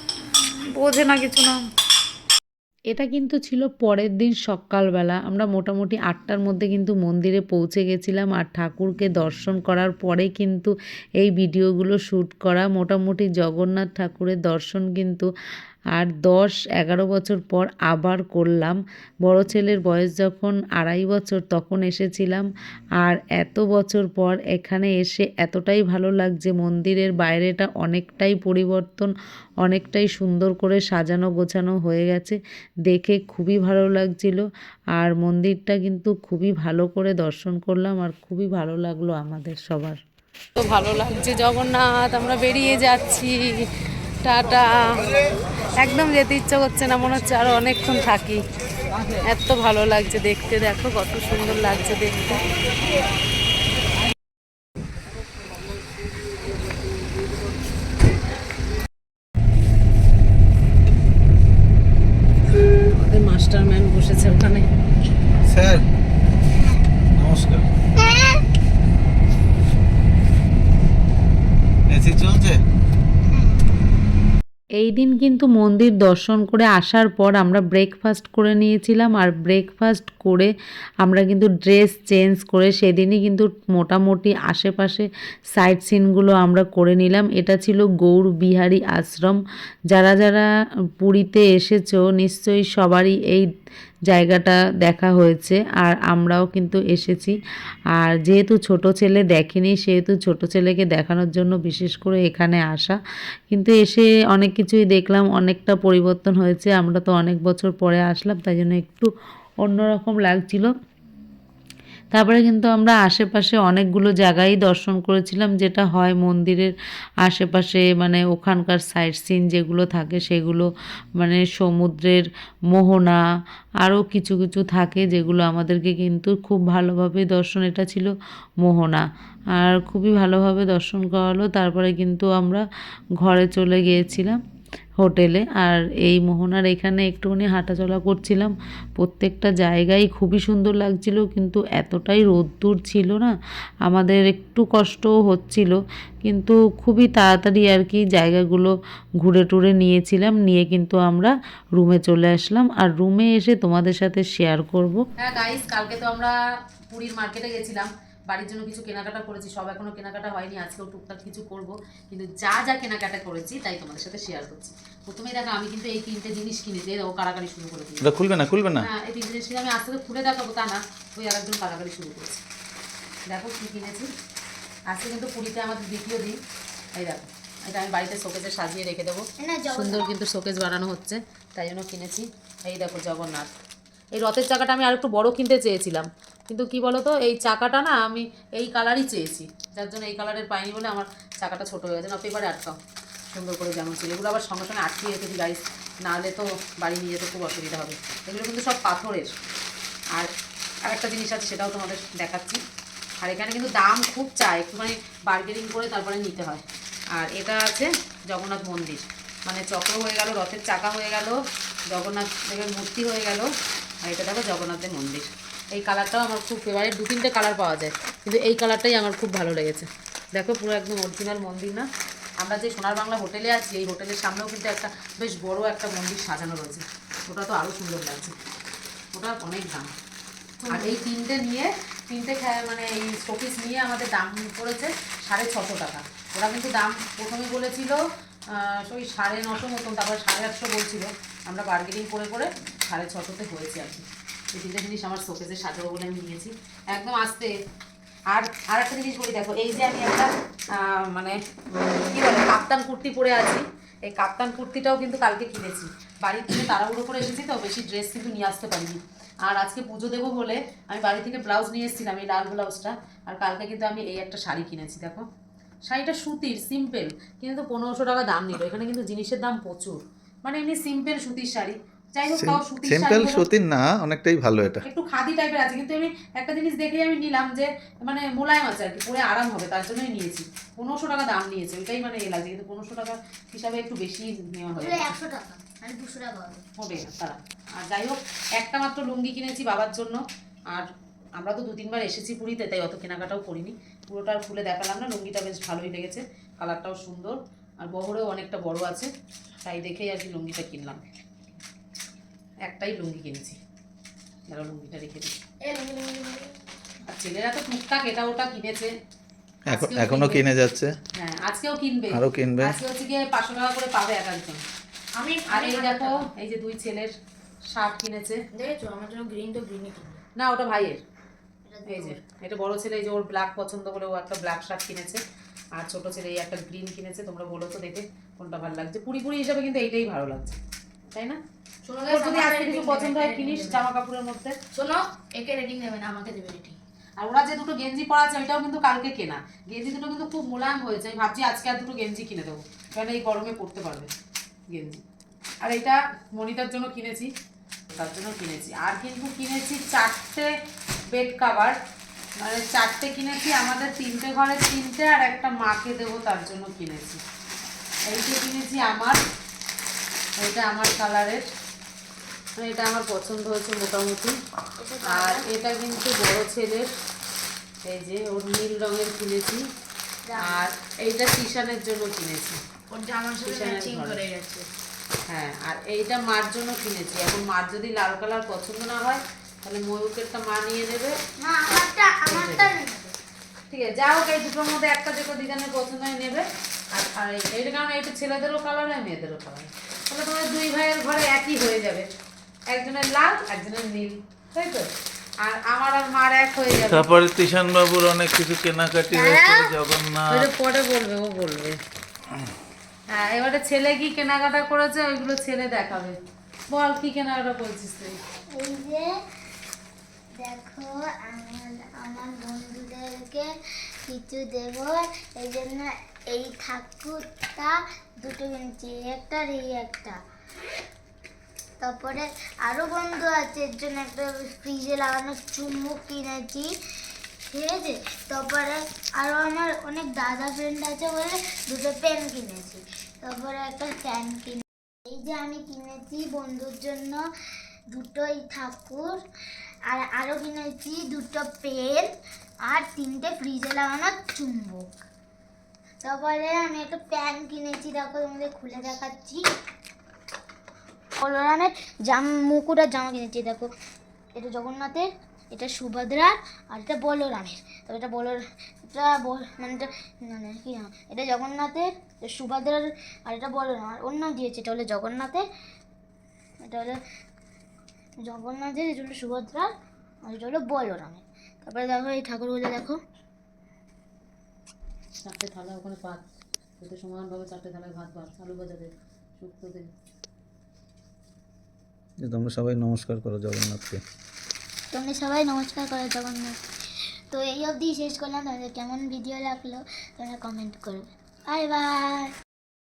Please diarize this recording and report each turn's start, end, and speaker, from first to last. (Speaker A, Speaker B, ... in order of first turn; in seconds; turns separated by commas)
Speaker A: 0.7-1.6, Speaker A: 2.9-15.3, Speaker A: 15.9-22.5, Speaker A: 23.0-29.1, Speaker A: 29.6-40.0, Speaker B: 40.5-43.7, Speaker B: 44.2-45.2, Speaker B: 45.8-48.4, Speaker B: 49.2-52.4, Speaker B: 62.9-64.7, Speaker C: 65.4-65.8, Speaker C: 67.2-67.6, Speaker C: 71.9-72.6, Speaker A: 74.8-80.5, Speaker A: 81.0-89.4, Speaker A: 89.9-90.5, Speaker A: 91.0-93.5, Speaker A: 94.1-97.4, Speaker A: 98.0-103.0, Speaker A: 103.5-109.1, Speaker A: 109.6-110.7, Speaker A: 112.1-116.7, Speaker A: 117.2-123.2, Speaker A: 123.8-132.6, Speaker A: 133.2-134.4, Speaker A: 135.0-143.3, Speaker A: 143.8-155.0, Speaker B: 155.2-156.3, Speaker B: 156.9-168.1, Speaker C: 168.0-168.9, Speaker B: 168.8-172.4, Speaker B: 173.3-174.1, Speaker B: 174.9-176.4, Speaker B: 176.9-183.5, Speaker D: 179.4-180.1, Speaker B: 184.2-192.8, Speaker B: 193.3-199.3, Speaker B: 200.8-202.6, Speaker B: 203.2-206.6, Speaker B: 207.1-211.4, Speaker B: 211.9-213.5, Speaker B: 214.0-221.8, Speaker B: 222.4-228.3, Speaker B: 229.1-229.9, Speaker B: 230.7-238.0, Speaker B: 238.5-247.5, Speaker B: 248.3-251.4, Speaker B: 252.0-265.2, Speaker B: 265.9-273.5, Speaker C: 272.3-274.8, Speaker B: 274.8-285.1, Speaker D: 284.7-286.6, Speaker B: 286.8-290.2, Speaker B: 290.7-299.1, Speaker B: 299.6-301.0, Speaker B: 302.6-303.6, Speaker B: 304.5-305.4, Speaker E: 305.6-306.4, Speaker B: 307.1-308.9, Speaker C: 309.6-310.9, Speaker B: 309.7-310.5, Speaker B: 311.1-314.6, Speaker C: 312.1-312.8, Speaker E: 315.1-316.2, Speaker B: 315.5-317.1, Speaker B: 317.7-318.4, Speaker E: 318.6-320.2, Speaker B: 320.4-321.0, Speaker D: 321.7-322.2, Speaker B: 321.9-325.2, Speaker B: 325.8-330.6, Speaker B: 331.1-331.4, Speaker E: 331.9-333.8, Speaker B: 332.0-334.6, Speaker E: 334.7-336.8, Speaker B: 337.2-344.1, Speaker B: 344.7-345.0, Speaker B: 345.6-347.3, Speaker B: 347.9-350.5, Speaker B: 351.1-351.8, Speaker B: 352.4-357.2, Speaker B: 358.1-359.2, Speaker B: 360.4-361.4, Speaker B: 362.6-364.4, Speaker D: 364.8-365.4, Speaker B: 365.0-366.9, Speaker B: 367.9-369.6, Speaker D: 370.2-370.7, Speaker B: 370.4-372.6, Speaker E: 372.9-374.7, Speaker B: 373.4-374.2, Speaker B: 375.3-381.1, Speaker D: 381.4-383.1, Speaker B: 382.3-382.8, Speaker B: 383.7-392.1, Speaker B: 392.7-394.9, Speaker B: 395.4-397.1, Speaker C: 396.9-400.4, Speaker D: 399.1-399.8, Speaker A: 400.3-401.8, Speaker B: 403.1-406.2, Speaker B: 406.7-408.2, Speaker D: 408.5-409.1, Speaker D: 410.4-413.5, Speaker D: 414.1-420.2, Speaker D: 421.8-426.7, Speaker D: 427.5-437.2, Speaker D: 437.9-439.2, Speaker D: 439.9-442.1, Speaker D: 442.6-444.9, Speaker D: 446.0-449.4, Speaker D: 451.2-453.7, Speaker D: 454.3-465.4, Speaker D: 466.6-467.0, Speaker D: 468.2-469.7, Speaker D: 470.2-473.0, Speaker B: 475.2-476.2, Speaker B: 476.8-479.9, Speaker C: 482.2-484.0, Speaker D: 484.9-486.6, Speaker D: 487.3-492.3